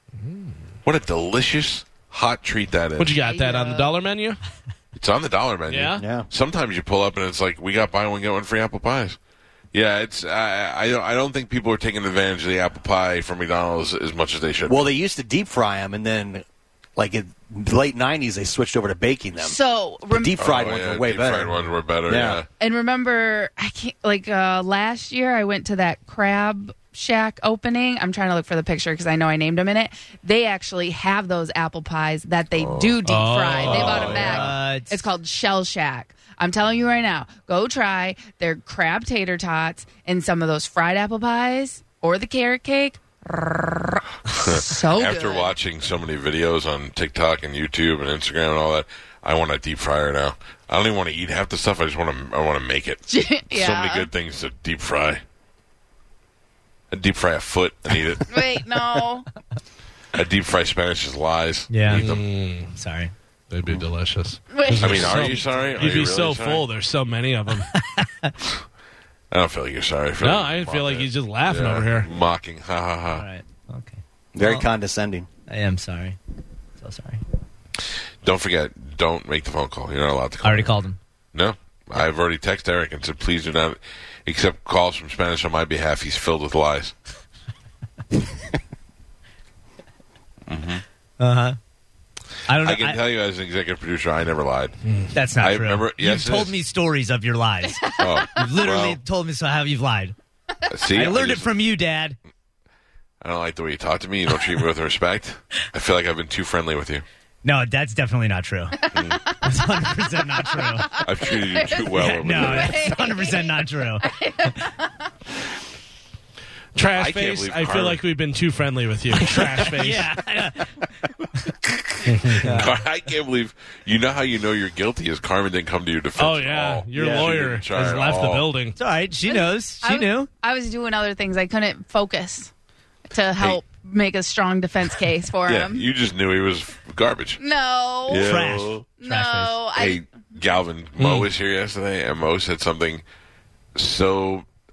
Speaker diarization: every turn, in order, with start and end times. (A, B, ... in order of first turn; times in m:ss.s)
0:00.2-0:00.6 A
0:00.8-0:03.1 B
0:03.0-0:04.4 A
0:03.2-0:04.0 C
0:04.9-0:09.2 B
0:05.7-0:06.0 A
0:06.0-0:06.3 D
0:09.7-0:15.0 B
0:14.7-0:16.4 D
0:17.0-0:19.6 D
0:19.4-0:20.4 C
0:20.1-0:22.4 D
0:20.4-0:22.4 B
0:22.6-0:45.5 C
0:32.5-0:33.0 B
0:33.0-0:34.4 A
0:33.5-0:34.4 B
0:34.1-0:35.1 E
0:44.3-0:55.2 B
0:53.1-0:54.1 C
0:56.9-0:58.6 B
0:58.3-0:59.3 C
1:00.1-1:02.2 B
1:01.7-1:02.1 E
1:01.9-1:02.7 A
1:02.7-1:03.1 E
1:03.5-1:07.7 A
1:04.5-1:05.2 C
1:04.8-1:06.6 B
1:05.2-1:05.9 E
1:07.7-1:08.3 E
1:09.3-1:13.2 B
1:10.2-1:12.1 A
1:13.1-1:14.7 E
1:14.3-1:15.3 D
1:15.5-1:16.2 E
1:16.8-1:17.2 E
1:18.2-1:20.7 B
1:20.4-1:21.0 E
1:21.3-1:26.9 B
1:30.5-1:30.8 B
1:31.2-1:31.6 E
1:32.5-1:33.0 E
1:32.5-1:34.8 B
1:34.8-1:35.1 A
1:35.1-1:40.2 E
1:35.4-1:36.5 B
1:37.6-1:38.3 C
1:38.0-1:39.0 B
1:40.7-1:41.5 B
1:40.9-1:42.2 E
1:43.2-1:47.0 B
1:47.4-1:48.8 E
1:48.8-1:49.8 C
1:49.4-1:50.9 E
1:50.4-1:54.9 C
1:51.0-1:52.9 B
1:52.0-1:54.1 E
1:56.7-2:00.1 A
1:56.9-1:58.0 B
1:59.7-2:00.7 E
2:01.6-2:08.5 B
2:02.0-2:02.5 A
2:02.4-2:02.7 E
2:06.2-2:08.8 A
2:07.0-2:07.3 D
2:08.8-2:10.3 E
2:09.3-2:12.5 C
2:13.1-2:15.9 C
2:15.5-2:17.4 B
2:17.4-2:18.4 C
2:18.1-2:18.9 B
2:18.1-2:19.6 E
2:19.0-2:20.2 C
2:19.8-2:23.0 B
2:21.0-2:21.3 A
2:23.7-2:24.5 B